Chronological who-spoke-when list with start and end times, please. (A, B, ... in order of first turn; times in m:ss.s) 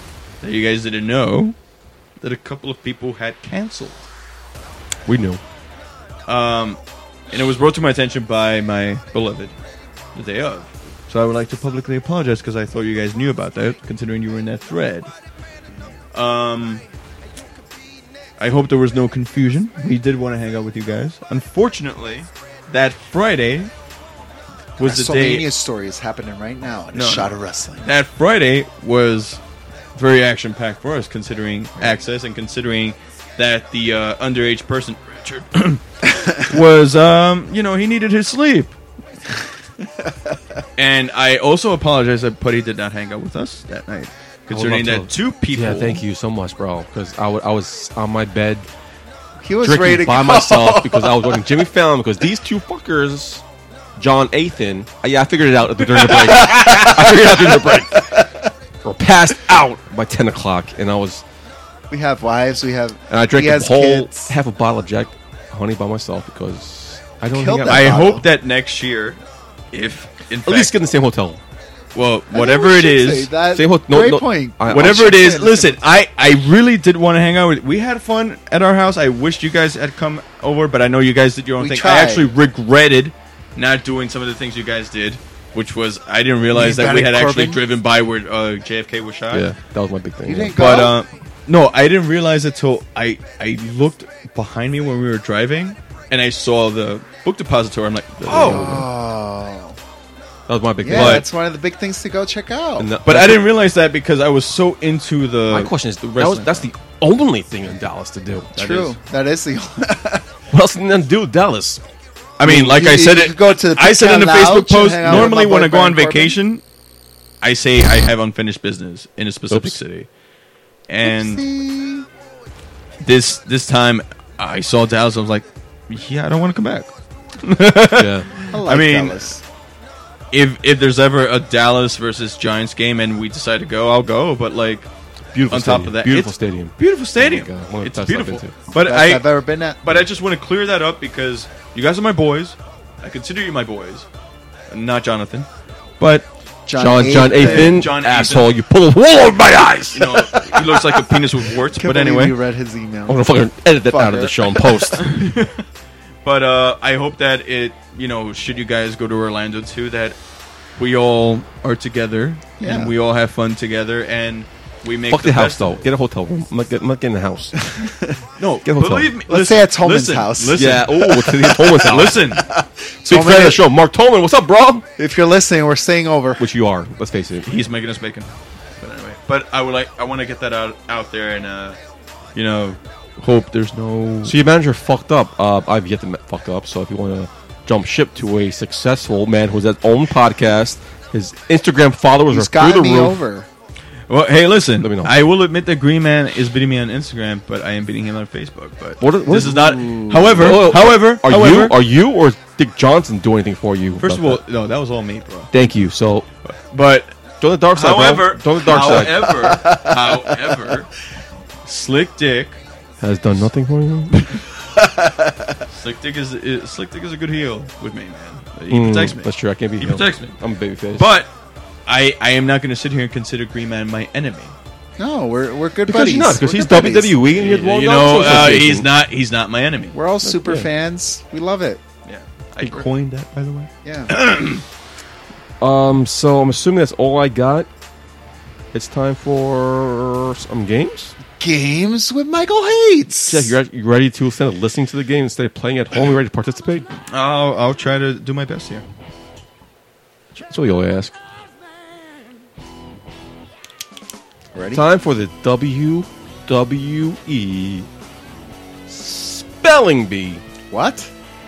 0:00.4-0:01.6 A
0:02.2-0:04.1 A
0:05.1-0:05.4 B
0:06.3-0:06.8 A
0:07.3-0:09.5 A
0:10.2-0:15.1 A
0:16.1-0:16.8 A
0:18.4-0:23.7 A
0:24.8-0:25.5 A
0:24.8-0:27.9 C
0:26.9-0:27.3 A
0:27.8-0:29.4 A
0:29.9-0:35.8 A
0:36.0-0:36.4 C
0:36.4-0:38.8 A
0:40.8-0:46.0 A
0:44.5-0:48.7 B
0:49.4-0:51.4 C
0:49.6-0:53.4 B
0:54.0-0:58.2 B
0:56.4-0:58.4 C
0:58.8-1:01.2 B
1:01.9-1:04.4 C
1:03.1-1:08.1 B
1:07.3-1:08.3 C
1:07.6-1:09.2 A
1:09.7-1:10.7 A
1:10.4-1:11.4 B
1:11.9-1:13.3 A
1:12.3-1:15.8 C
1:13.5-1:15.2 B
1:14.7-1:29.4 A
1:21.6-1:22.3 C
1:26.5-1:27.6 C
1:29.3-1:30.6 B
1:30.2-1:31.0 C
1:30.6-1:38.8 A
1:38.2-1:38.9 B
1:38.3-1:39.8 C
1:40.5-1:41.2 B
1:40.8-1:42.9 C
1:40.9-1:41.2 A
1:42.8-1:43.5 B
1:43.0-1:46.7 A
1:45.5-1:48.6 B
1:48.6-1:48.9 A
1:48.6-1:50.3 C
1:50.5-1:51.8 B
1:52.4-1:56.6 A
1:52.4-1:56.4 C
1:57.4-2:00.1 A
1:59.5-1:59.8 B
2:00.9-2:01.4 A
2:01.0-2:02.1 C
2:03.0-2:09.3 A
2:07.9-2:08.3 B
2:08.5-2:09.4 C
2:10.3-2:14.9 A
2:15.3-2:18.5 B
2:15.5-2:19.3 A
2:18.7-2:19.9 C
2:19.8-2:24.1 A
2:24.7-2:25.5 A
2:26.0-2:26.3 A
2:26.6-2:27.9 C
2:26.8-2:30.4 B
2:27.2-2:28.5 A
2:29.9-2:32.4 A
2:31.7-2:33.3 C
2:33.1-2:35.1 B
2:33.9-2:34.7 C
2:34.8-2:35.6 A
2:36.2-2:40.2 A
2:40.8-2:45.9 A
2:42.6-2:42.9 C
2:45.1-2:47.6 B
2:47.6-2:48.2 C
2:48.4-2:51.2 A
2:48.6-2:49.1 B
2:49.3-2:53.6 C
2:50.5-2:52.3 B
2:51.7-2:52.4 A
2:53.1-2:54.8 B
2:55.0-2:56.4 C
2:56.4-2:57.5 B
2:57.4-3:01.8 A
3:02.4-3:04.4 A
3:04.2-3:13.2 B
3:12.3-3:13.5 C
3:14.1-3:21.8 A
3:14.8-3:15.1 B
3:19.0-3:24.4 B
3:19.6-3:20.4 C
3:24.0-3:25.5 A
3:25.5-3:26.3 B
3:26.4-3:27.2 A
3:27.4-3:29.3 B
3:27.7-3:30.9 A
3:29.2-3:30.6 C
3:31.6-3:32.6 A
3:33.0-3:34.3 B
3:34.8-3:35.6 C
3:35.7-3:40.4 A
3:38.7-3:41.1 B
3:41.0-3:41.3 A
3:41.9-3:44.6 A
3:45.0-3:47.2 C
3:45.9-3:48.9 B
3:47.4-3:50.0 A
3:48.2-3:48.6 C
3:49.9-3:51.8 C
3:50.2-3:50.7 B
3:52.0-3:54.6 A
3:53.8-3:54.1 C
3:55.6-3:57.7 B
3:58.7-4:01.2 B
4:01.4-4:03.6 C
4:03.3-4:06.9 B
4:07.1-4:08.8 A
4:10.4-4:11.2 B
4:14.5-4:14.8 C
4:14.7-4:17.9 B
4:18.9-4:20.4 B
4:20.7-4:21.1 C